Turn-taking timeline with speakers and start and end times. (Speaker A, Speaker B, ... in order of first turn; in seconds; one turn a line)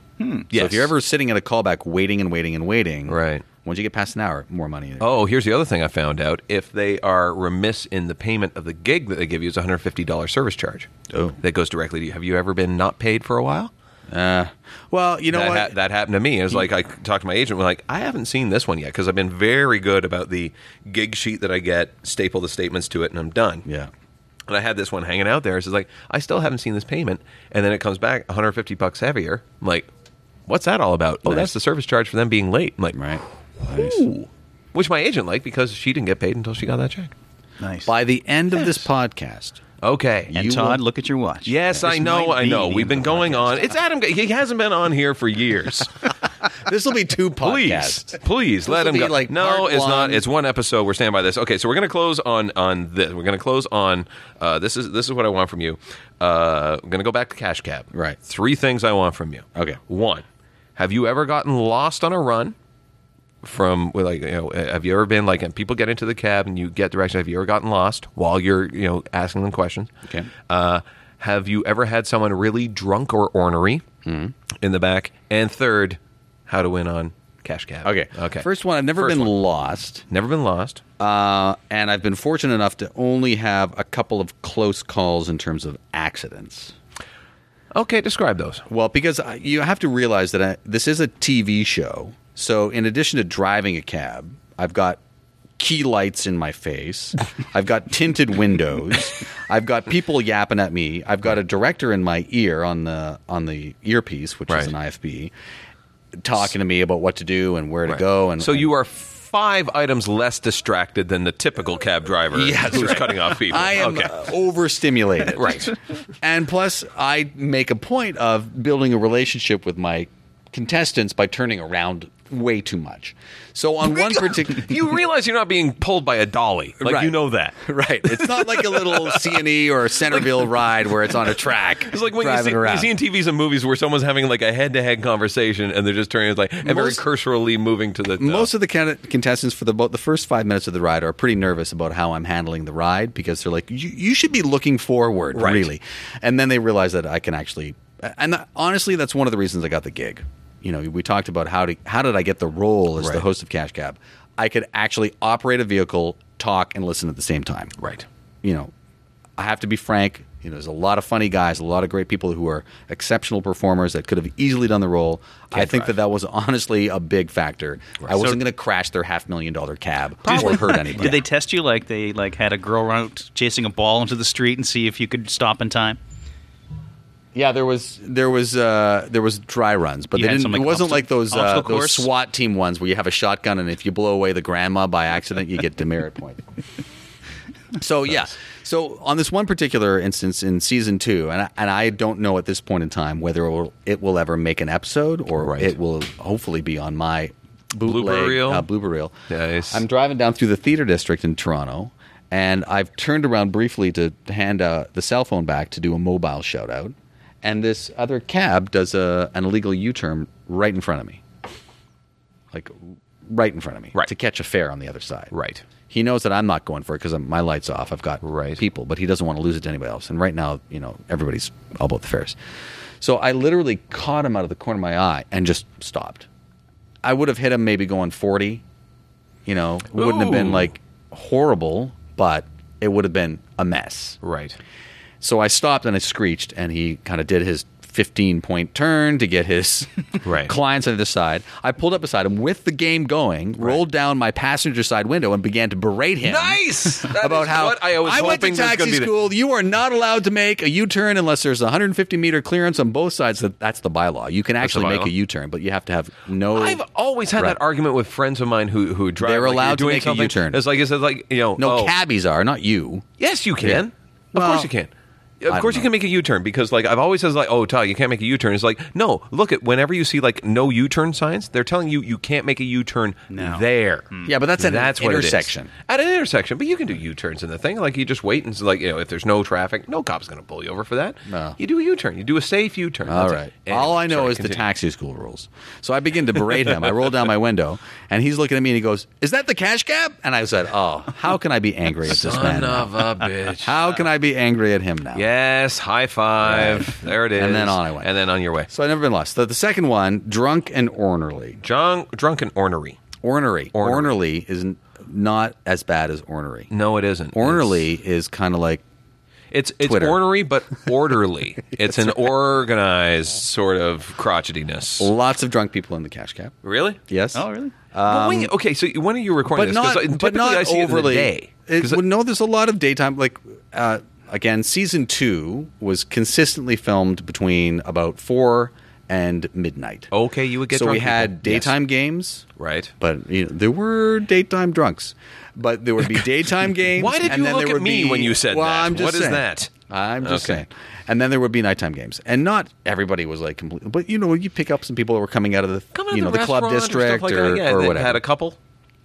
Speaker A: 0.2-0.5
Speaker B: 0.5-0.9
Speaker C: 0.5-5.2
Speaker B: 3.1-3.4
Speaker B: 5.0-10.9
Speaker C: 11.1-11.4
Speaker B: 11.4-13.7
Speaker C: 14.1-15.7
Speaker B: 15.3-23.6
Speaker C: 23.6-23.9
Speaker B: 24.5-29.9
Speaker B: 30.5-37.1
Speaker C: 31.2-31.5
Speaker C: 32.9-34.0
Speaker A: 37.6-37.9
Speaker C: 37.9-39.6
Speaker B: 39.8-40.5
Speaker C: 40.3-40.8
Speaker A: 40.3-43.4
Speaker B: 41.5-46.0
Speaker C: 46.5-50.2
Speaker B: 47.4-60.2
Speaker C: 57.9-58.2
Speaker B: 60.8-62.5
Speaker B: 63.4-69.9
Speaker B: 70.5-73.8
Speaker C: 74.0-74.3
Speaker B: 74.6-78.5
Speaker C: 77.8-80.0
Speaker B: 79.0-79.3
Speaker B: 80.1-80.8
Speaker C: 81.0-86.7
Speaker B: 87.7-88.6
Speaker C: 88.7-95.0
Speaker C: 95.6-105.3
Speaker C: 106.2-108.7
Speaker B: 107.9-114.1
Speaker C: 112.3-124.8
Speaker B: 115.3-115.7
Speaker B: 123.8-129.4
Speaker C: 126.8-132.9
Speaker B: 131.8-138.5
Speaker C: 136.6-137.0
Speaker C: 138.2-157.7
Speaker B: 145.3-145.7
Speaker B: 157.8-158.0
Speaker C: 158.4-158.7
Speaker C: 159.4-171.2
Speaker B: 165.5-165.9
Speaker A: 170.2-176.0
Speaker C: 177.3-186.4
Speaker A: 180.1-182.1
Speaker C: 187.8-199.1
Speaker B: 195.4-195.7
Speaker B: 197.8-198.6
Speaker B: 199.3-199.8
Speaker C: 199.7-211.2
Speaker C: 212.5-215.3
Speaker B: 215.3-215.6
Speaker C: 215.9-222.3
Speaker B: 218.2-218.6
Speaker C: 223.0-226.2
Speaker C: 227.0-228.6
Speaker C: 229.4-234.2
Speaker B: 229.9-230.7
Speaker B: 234.2-234.6
Speaker C: 235.2-256.8
Speaker B: 240.2-240.5
Speaker B: 246.2-249.1
Speaker B: 254.6-255.1
Speaker B: 256.5-261.9
Speaker C: 259.2-260.6
Speaker C: 261.6-263.1
Speaker B: 263.2-284.6
Speaker C: 263.6-264.7
Speaker C: 265.5-265.9
Speaker A: 273.3-274.3
Speaker C: 274.2-275.7
Speaker C: 281.3-281.6
Speaker C: 283.1-293.0
Speaker B: 292.1-293.9
Speaker C: 293.6-295.2
Speaker B: 295.1-298.7
Speaker C: 296.4-298.1
Speaker C: 298.7-301.6
Speaker B: 301.6-303.0
Speaker C: 303.2-306.7
Speaker B: 303.7-304.1
Speaker B: 306.7-307.8
Speaker C: 307.3-308.8
Speaker B: 309.5-315.1
Speaker C: 309.8-310.2
Speaker C: 315.0-316.5
Speaker B: 316.6-317.0
Speaker C: 317.1-318.5
Speaker A: 317.3-317.7
Speaker B: 318.0-322.0
Speaker C: 319.5-330.1
Speaker B: 330.1-331.7
Speaker C: 330.7-332.4
Speaker B: 332.6-332.9
Speaker C: 333.0-348.2
Speaker B: 337.0-339.7
Speaker B: 340.2-340.6
Speaker B: 345.9-348.6